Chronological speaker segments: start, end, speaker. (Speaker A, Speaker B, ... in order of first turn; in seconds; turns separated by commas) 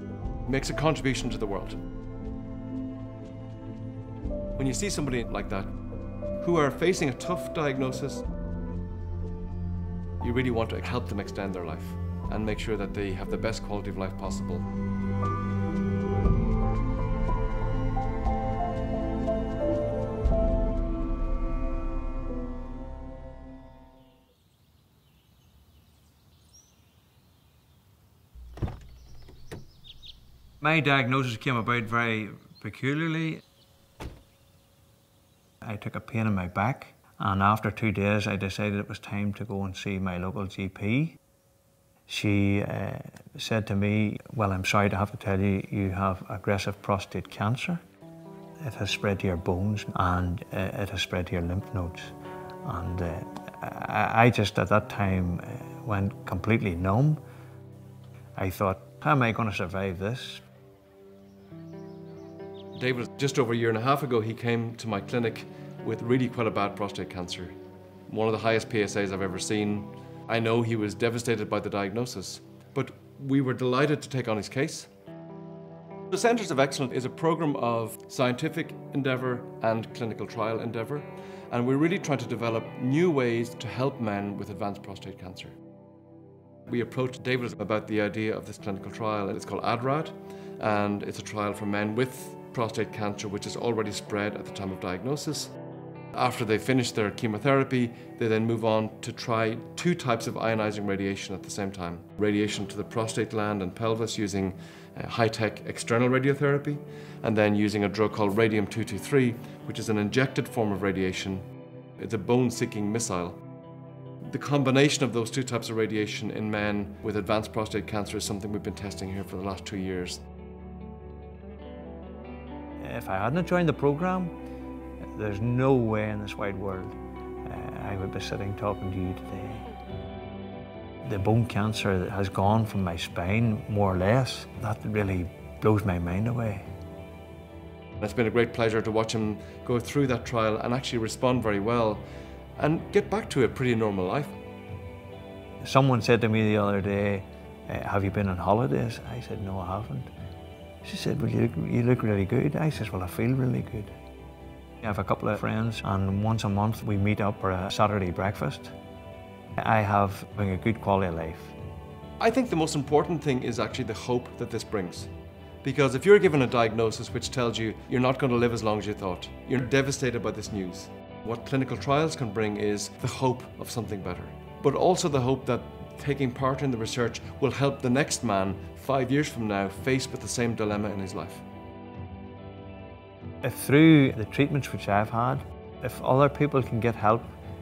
Speaker A: 0.4-1.8, Speaker A: 4.6-5.8, Speaker A: 6.4-8.2, Speaker A: 10.2-14.7, Speaker B: 30.6-33.4, Speaker B: 35.6-41.2, Speaker B: 42.1-47.8, Speaker B: 48.6-57.2, Speaker B: 58.4-60.4, Speaker A: 62.8-67.5, Speaker A: 68.1-74.9, Speaker A: 76.1-85.5, Speaker A: 86.7-95.5, Speaker A: 96.1-111.4, Speaker A: 112.0-113.4, Speaker A: 114.2-120.2, Speaker B: 122.8-124.3, Speaker B: 125.2-129.7, Speaker B: 131.0-136.7, Speaker A: 138.0-142.0, Speaker A: 142.6-144.4, Speaker B: 145.6-150.1, Speaker B: 150.8-153.9, Speaker B: 154.8-158.7, Speaker B: 159.6-161.6, Speaker A: 162.2-165.1, Speaker A: 165.6-181.4, Speaker B: 183.4-187.3